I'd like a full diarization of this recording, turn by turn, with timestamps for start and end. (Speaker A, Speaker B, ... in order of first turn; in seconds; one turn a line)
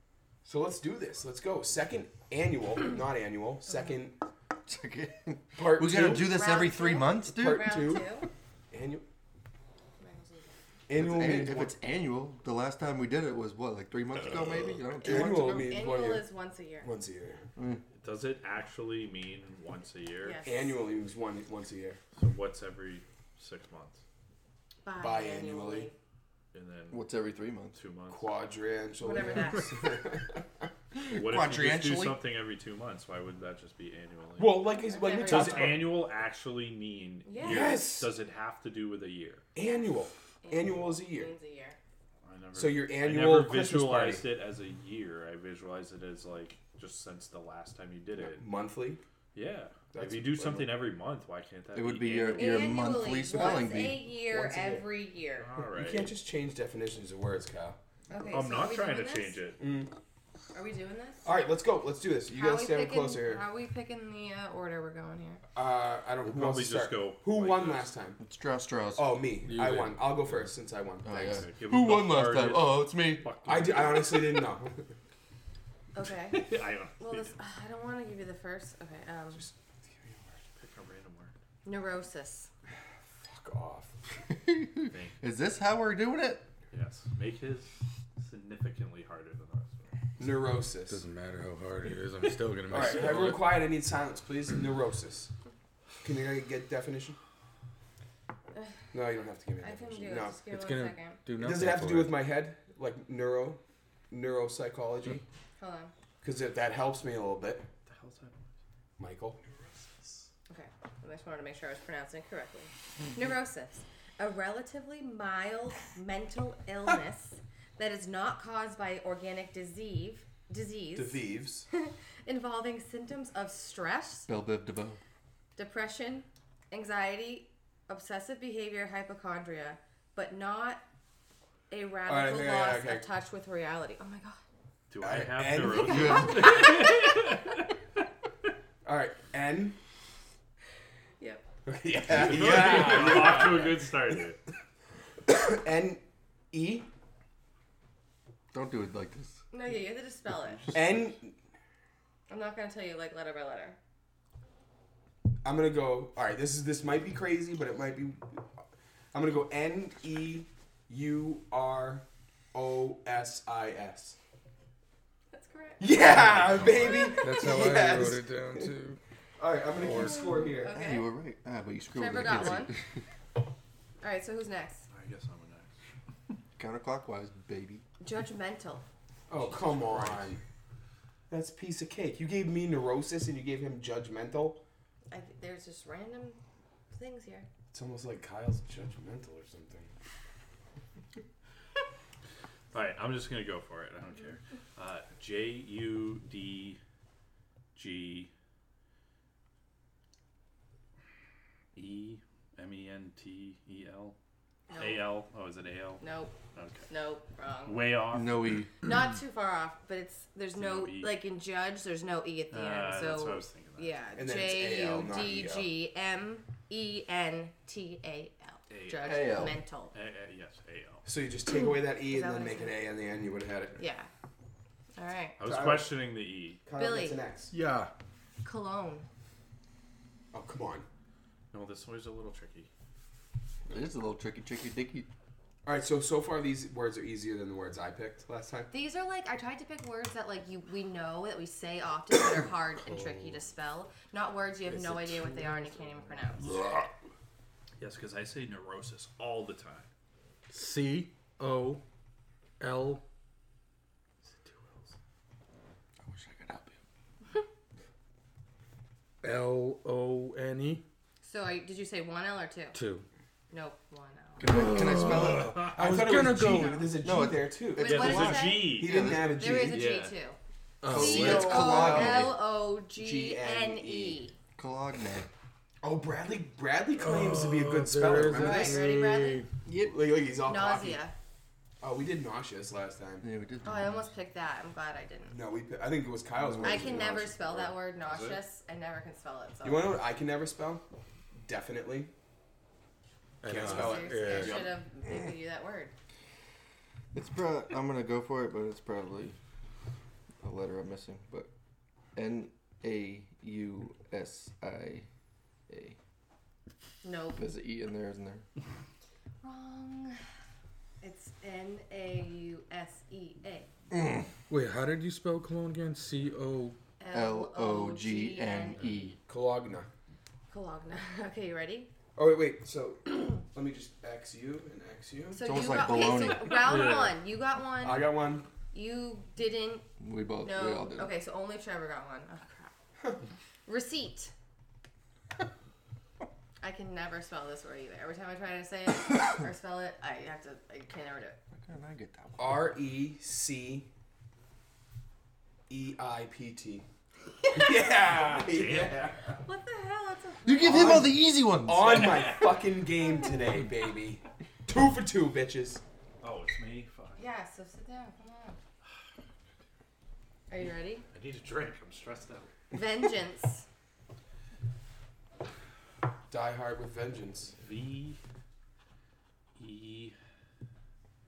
Speaker A: 0.4-4.2
Speaker B: 4.7-7.7
Speaker A: 5.5-6.3
Speaker C: 6.1-8.3
Speaker A: 7.3-8.2
Speaker A: 8.7-9.0
Speaker C: 10.0-10.6
Speaker A: 10.9-11.7
Speaker B: 10.9-15.8
Speaker A: 15.0-17.5
Speaker C: 15.0-16.9
Speaker B: 17.6-17.8
Speaker D: 17.9-20.4
Speaker C: 20.2-20.7
Speaker A: 20.4-22.0
Speaker D: 22.2-24.0
Speaker C: 24.8-25.9
Speaker A: 25.0-25.9
Speaker D: 26.5-27.0
Speaker B: 26.9-27.8
Speaker D: 27.7-28.3
Speaker A: 28.1-30.4
Speaker C: 29.0-29.9
Speaker B: 30.9-32.2
Speaker D: 31.1-34.7
Speaker A: 34.4-36.0
Speaker C: 34.8-35.8
Speaker D: 35.2-39.4
Speaker C: 37.3-37.8
Speaker A: 37.4-38.1
Speaker A: 39.5-41.3
Speaker C: 40.4-41.8
Speaker D: 42.2-48.5
Speaker A: 42.5-44.3
Speaker A: 48.2-49.0
Speaker D: 49.3-52.9
Speaker A: 49.9-50.8
Speaker B: 51.7-54.1
Speaker C: 52.3-55.5
Speaker A: 53.4-54.9
Speaker D: 55.4-56.1
Speaker A: 55.7-57.8
Speaker C: 58.1-59.4
Speaker D: 58.3-59.6
Speaker A: 59.6-59.9
Speaker C: 60.5-61.3
Speaker A: 61.2-63.5
Speaker C: 62.3-65.4
Speaker A: 65.5-68.2
Speaker D: 66.2-68.0
Speaker B: 68.2-69.2
Speaker A: 69.0-71.5
Speaker E: 69.4-70.4
Speaker B: 71.0-73.3
Speaker D: 71.2-74.4
Speaker A: 73.5-74.9
Speaker C: 76.0-79.5
Speaker D: 76.3-77.3
Speaker A: 79.4-80.3
Speaker D: 80.6-81.3
Speaker C: 81.6-82.5
Speaker A: 83.2-83.9
Speaker B: 84.3-86.5
Speaker D: 84.9-85.2
Speaker D: 86.7-89.9
Speaker A: 90.2-91.0
Speaker E: 90.9-93.5
Speaker A: 92.7-95.3
Speaker D: 93.1-93.4
Speaker A: 96.0-97.2
Speaker A: 98.9-100.4
Speaker C: 99.6-101.3
Speaker E: 100.5-102.2
Speaker A: 101.4-105.2
Speaker C: 105.6-105.9
Speaker A: 106.2-107.7
Speaker D: 107.9-108.4
Speaker A: 109.0-109.4
Speaker C: 110.5-124.3
Speaker A: 120.9-121.7
Speaker B: 124.3-125.0
Speaker C: 125.6-130.8
Speaker C: 131.7-134.4
Speaker A: 132.1-133.1
Speaker D: 134.9-137.7
Speaker A: 135.0-136.2
Speaker B: 135.8-136.6
Speaker C: 136.1-136.3
Speaker A: 138.8-139.8
Speaker A: 141.7-143.8
Speaker D: 142.1-144.4
Speaker A: 145.3-146.9
Speaker B: 148.5-149.4
Speaker C: 149.5-150.7
Speaker D: 150.4-151.1
Speaker A: 150.7-151.3
Speaker C: 152.3-153.8
Speaker A: 155.4-158.4
Speaker A: 159.1-164.2
Speaker C: 165.3-166.0
Speaker A: 165.8-168.7
Speaker D: 165.9-167.2
Speaker E: 167.2-169.0
Speaker A: 169.4-170.8
Speaker E: 169.8-170.3
Speaker C: 169.9-171.1
Speaker B: 170.7-172.8
Speaker C: 171.9-172.7
Speaker C: 174.0-174.9
Speaker D: 174.9-175.7
Speaker B: 176.6-177.8
Speaker C: 178.0-178.8
Speaker A: 179.3-180.4
Speaker D: 179.4-180.4
Speaker A: 181.3-184.6
Speaker C: 185.1-186.4
Speaker C: 186.9-187.5
Speaker A: 187.7-189.9
Speaker D: 192.7-196.8
Speaker D: 197.8-198.3
Speaker D: 201.8-204.2
Speaker C: 204.7-205.1
Speaker D: 204.8-206.9
Speaker C: 206.0-206.4
Speaker C: 206.9-208.0
Speaker D: 207.7-208.4
Speaker B: 208.1-208.8
Speaker C: 208.7-219.9
Speaker D: 210.5-211.2
Speaker D: 212.5-214.0
Speaker A: 214.2-215.7
Speaker D: 218.7-219.2
Speaker B: 219.0-219.6
Speaker D: 219.9-221.1
Speaker A: 221.1-223.8
Speaker C: 222.0-222.8
Speaker C: 223.8-224.1
Speaker C: 224.9-225.4
Speaker D: 225.4-226.6
Speaker A: 225.4-226.0
Speaker A: 226.7-227.5
Speaker C: 226.7-227.2
Speaker B: 227.5-227.9
Speaker C: 228.4-229.1
Speaker A: 230.3-230.9
Speaker D: 231.5-232.7
Speaker B: 233.7-235.1
Speaker A: 235.7-238.7
Speaker C: 238.7-246.5
Speaker A: 244.7-245.7
Speaker D: 247.8-249.9
Speaker E: 250.5-251.8
Speaker E: 252.6-253.0
Speaker E: 256.1-256.8
Speaker E: 259.2-260.8
Speaker C: 261.2-262.8
Speaker E: 262.7-263.1
Speaker C: 263.5-264.5
Speaker B: 264.4-265.7
Speaker E: 264.4-266.9
Speaker A: 265.6-269.9
Speaker B: 267.0-269.4
Speaker C: 267.7-270.4
Speaker D: 267.8-269.0
Speaker D: 269.7-270.2
Speaker E: 270.8-271.7
Speaker B: 270.9-272.4
Speaker C: 270.9-274.3
Speaker A: 270.9-272.4
Speaker A: 272.9-274.2
Speaker B: 274.6-275.3
Speaker A: 275.8-278.9
Speaker E: 277.0-279.5
Speaker C: 278.3-279.4
Speaker B: 279.7-280.0
Speaker A: 279.8-281.0
Speaker C: 280.4-281.1
Speaker A: 281.8-283.2
Speaker B: 283.2-284.1
Speaker C: 283.6-285.4
Speaker A: 285.3-287.6
Speaker B: 286.4-287.1
Speaker C: 286.6-290.0
Speaker D: 287.4-288.4
Speaker A: 289.6-290.8
Speaker A: 291.4-292.1
Speaker E: 293.4-294.7
Speaker A: 293.4-294.8
Speaker C: 293.5-295.9
Speaker B: 297.1-299.4
Speaker B: 300.4-301.5
Speaker B: 302.1-305.1
Speaker B: 305.7-306.0
Speaker C: 307.0-307.4
Speaker B: 307.4-308.4
Speaker C: 309.4-310.2
Speaker C: 311.0-313.7
Speaker B: 313.9-314.3
Speaker E: 314.5-316.8
Speaker C: 317.0-319.1
Speaker B: 317.1-319.2
Speaker A: 319.3-319.9
Speaker C: 320.5-321.9
Speaker A: 322.1-325.4
Speaker C: 325.3-328.1
Speaker B: 325.4-326.7
Speaker D: 326.6-327.1
Speaker E: 326.6-327.0
Speaker A: 327.8-328.5
Speaker C: 328.7-329.9
Speaker B: 330.0-331.1
Speaker C: 330.4-332.7
Speaker C: 333.7-334.3
Speaker C: 336.6-341.4
Speaker B: 341.5-342.6
Speaker A: 342.4-343.9
Speaker A: 345.7-346.9
Speaker A: 347.5-349.3
Speaker D: 348.1-349.2
Speaker C: 349.4-351.1
Speaker B: 350.4-352.3
Speaker A: 350.6-355.8
Speaker D: 351.8-352.6
Speaker D: 356.2-357.3
Speaker C: 357.2-358.6
Speaker C: 360.5-361.1
Speaker D: 361.1-362.5
Speaker C: 362.7-363.7
Speaker A: 366.3-367.5
Speaker D: 367.6-368.2
Speaker D: 369.6-370.2